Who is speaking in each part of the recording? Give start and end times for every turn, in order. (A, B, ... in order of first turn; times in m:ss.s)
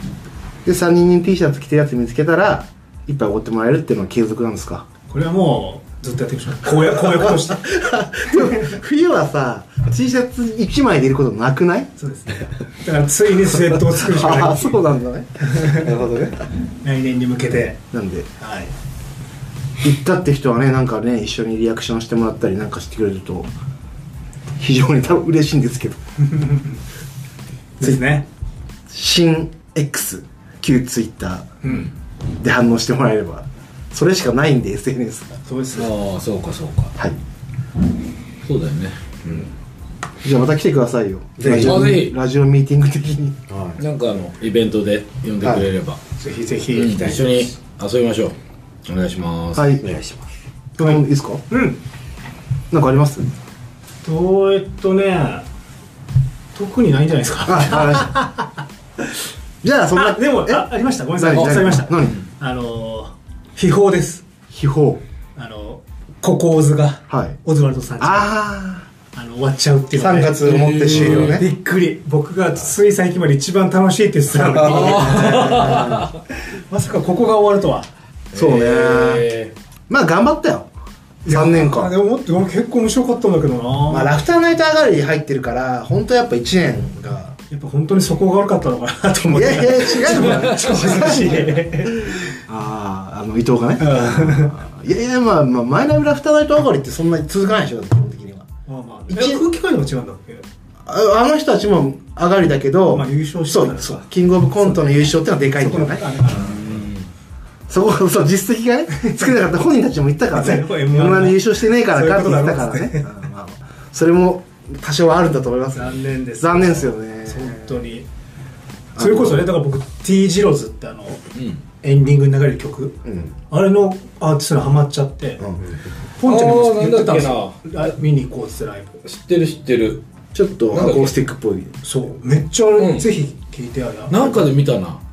0:00.6-0:04.8 A
0:05.1-0:07.8 B
0:07.6-0:11.9 A
0:08.3-0:08.7 B
0:12.0-0:14.8 B
0:14.0-0:16.4 A
0:15.5-0:15.9 B
0:16.8-0:17.8 B
0:17.9-0:18.3 A
0:18.4-0:18.7 B
0:19.8-0:23.5 A
0:24.6-0:26.0 A
0:26.2-0:26.8 B
0:27.8-0:28.3 B
0:28.9-0:31.5 A
0:31.6-0:31.9 B
0:32.4-0:35.4 A
0:35.5-0:35.9 B
0:35.8-0:37.0 C
0:38.4-0:39.5 C
0:40.2-0:43.4 A
0:41.4-0:41.9 D
0:41.5-0:42.2 C
0:43.5-0:43.8 D
0:43.8-0:46.0 C
0:46.2-0:47.1 B
0:46.7-0:49.8 C
0:46.8-0:47.4 D
0:49.6-0:49.8 A
0:49.8-0:50.3 D
0:50.8-0:51.4 A
0:50.8-0:51.8 B
0:52.7-0:53.3 A
0:54.0-0:55.5 B
0:56.6-0:58.5 B
0:57.5-0:58.2 A
0:59.6-1:00.7 A
0:59.9-1:04.2 B
1:01.2-1:02.2 A
1:04.5-1:05.0 A
1:05.4-1:08.3 B
1:07.1-1:07.4 A
1:08.0-1:08.9 A
1:09.1-1:16.1 B
1:09.9-1:11.4 A
1:10.4-1:11.4 C
1:14.5-1:15.8 A
1:14.6-1:16.2 C
1:16.7-1:17.9 B
1:18.3-1:19.3 A
1:18.3-1:19.5 C
1:19.9-1:20.7 A
1:21.2-1:24.2 B
1:21.3-1:21.9 A
1:23.9-1:27.4 A
1:27.5-1:32.4 B
1:29.2-1:38.5 A
1:33.8-1:34.5 B
1:38.7-1:40.4 B
1:39.1-1:39.4 A
1:40.9-1:46.6 A
1:42.9-1:44.1 B
1:44.6-1:46.8 B
1:46.3-1:47.1 C
1:47.7-1:57.7 A
1:49.0-1:49.3 B
1:50.3-1:53.1 B
1:55.7-1:58.1 B
1:59.0-1:59.4 A
1:59.0-2:01.2 B
2:01.4-2:01.6 C
2:01.8-2:05.5 B
2:06.2-2:09.0 B
2:06.2-2:07.6 C
2:09.0-2:10.0 C
2:10.3-2:11.7 A
2:10.7-2:11.1 C
2:11.8-2:14.5 B
2:12.8-2:13.1 C
2:14.1-2:15.0 C